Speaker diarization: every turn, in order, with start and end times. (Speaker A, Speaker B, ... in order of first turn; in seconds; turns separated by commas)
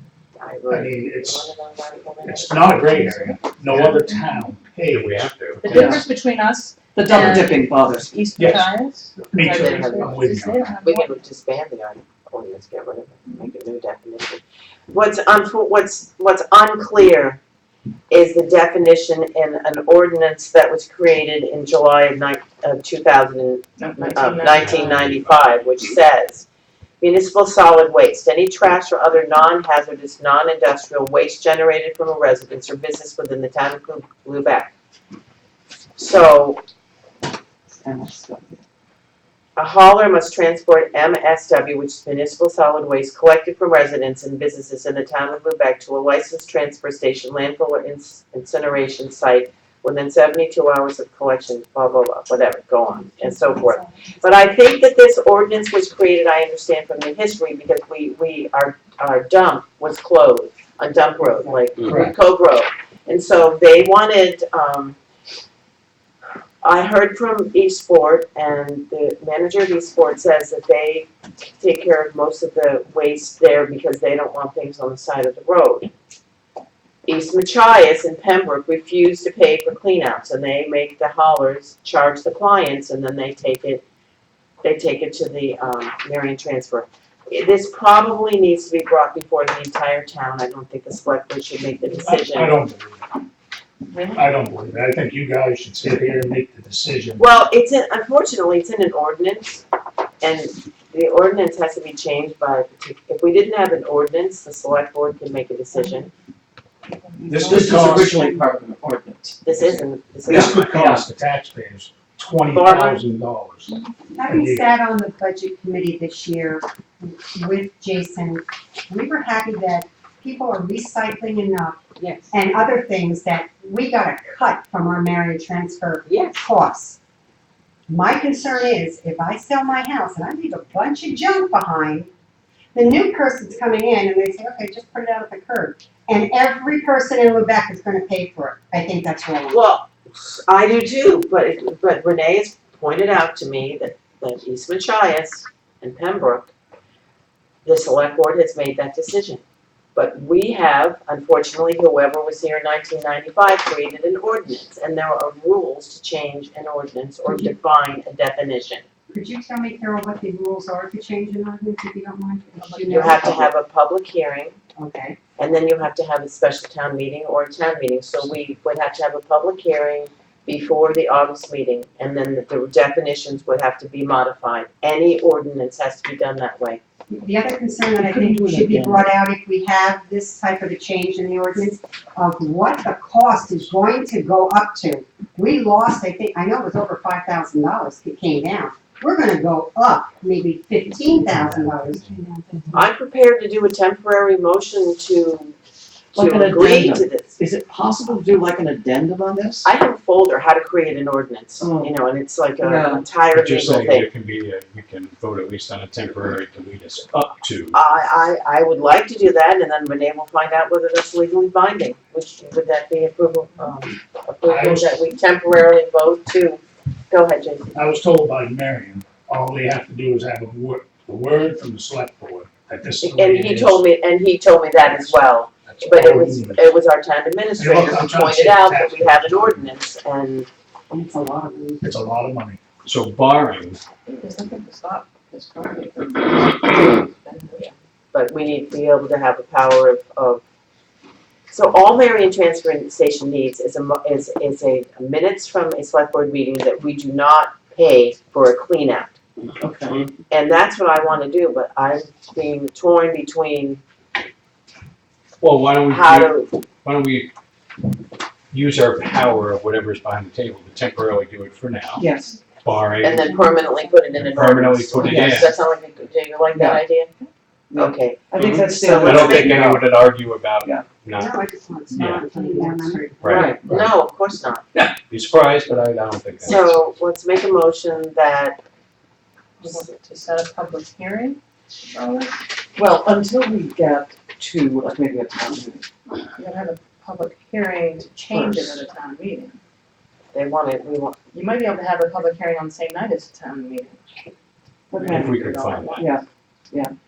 Speaker A: 0.4-2.8, Speaker B: 0.7-1.5, Speaker B: 2.2-6.0, Speaker C: 2.8-4.3, Speaker D: 3.7-4.0, Speaker D: 4.9-6.0, Speaker C: 5.6-11.2, Speaker E: 6.9-8.1, Speaker B: 8.3-10.7, Speaker A: 9.3-10.2, Speaker A: 10.8-17.4, Speaker A: 18.1-26.5, Speaker C: 23.8-25.1, Speaker D: 24.5-25.2, Speaker A: 27.0-34.7, Speaker A: 36.0-36.6, Speaker E: 37.8-38.6, Speaker A: 39.6-65.0, Speaker B: 61.8-62.1, Speaker A: 66.6-75.9, Speaker A: 77.0-83.8, Speaker A: 84.6-92.6, Speaker B: 91.9-93.1, Speaker B: 94.1-97.2, Speaker A: 97.2-99.6, Speaker A: 100.2-106.1, Speaker B: 107.3-108.3, Speaker E: 107.3-109.4, Speaker A: 109.4-110.9, Speaker B: 110.2-113.7, Speaker E: 110.2-111.0, Speaker A: 112.5-113.0, Speaker F: 114.1-121.8, Speaker B: 114.2-114.7, Speaker A: 122.0-122.3, Speaker F: 122.3-127.0, Speaker A: 126.0-126.5, Speaker F: 127.9-132.1, Speaker F: 132.7-139.6, Speaker A: 139.5-146.5, Speaker A: 147.6-149.4, Speaker A: 149.9-158.8, Speaker F: 157.2-157.5, Speaker F: 159.1-163.5, Speaker C: 162.6-163.4, Speaker A: 162.9-164.6, Speaker F: 164.8-165.2, Speaker A: 165.4-176.8, Speaker F: 177.1-192.9, Speaker E: 178.0-179.1, Speaker D: 191.3-192.1, Speaker A: 192.7-195.6, Speaker A: 196.1-197.3, Speaker E: 196.1-199.7, Speaker A: 199.6-204.1, Speaker E: 201.6-202.0, Speaker E: 202.6-203.1, Speaker D: 203.3-207.8, Speaker A: 207.7-217.8, Speaker B: 214.4-215.0, Speaker B: 217.7-223.8, Speaker A: 223.0-230.5, Speaker B: 224.8-226.7, Speaker B: 227.6-229.7, Speaker F: 230.9-231.9, Speaker B: 231.8-232.6, Speaker D: 232.8-233.8, Speaker C: 234.1-237.7, Speaker A: 238.1-240.4, Speaker A: 241.5-249.1, Speaker E: 249.6-250.1, Speaker A: 249.9-253.8, Speaker D: 255.4-257.3, Speaker A: 255.9-256.5, Speaker D: 258.5-263.3, Speaker E: 261.9-262.4, Speaker A: 263.0-267.1, Speaker D: 264.2-265.5, Speaker E: 264.9-265.6, Speaker E: 266.5-269.9, Speaker A: 267.7-269.7, Speaker D: 268.4-271.4, Speaker F: 271.1-273.3, Speaker D: 271.9-272.3, Speaker C: 272.2-273.0, Speaker D: 273.2-273.8, Speaker A: 273.2-274.6, Speaker D: 275.1-276.8, Speaker A: 276.4-278.6, Speaker C: 279.6-282.4, Speaker E: 282.7-285.8, Speaker C: 286.4-289.6, Speaker E: 288.2-288.8, Speaker A: 290.3-291.2, Speaker C: 291.3-294.0, Speaker E: 294.9-295.4, Speaker C: 294.9-296.2, Speaker D: 295.0-296.0, Speaker E: 295.9-296.9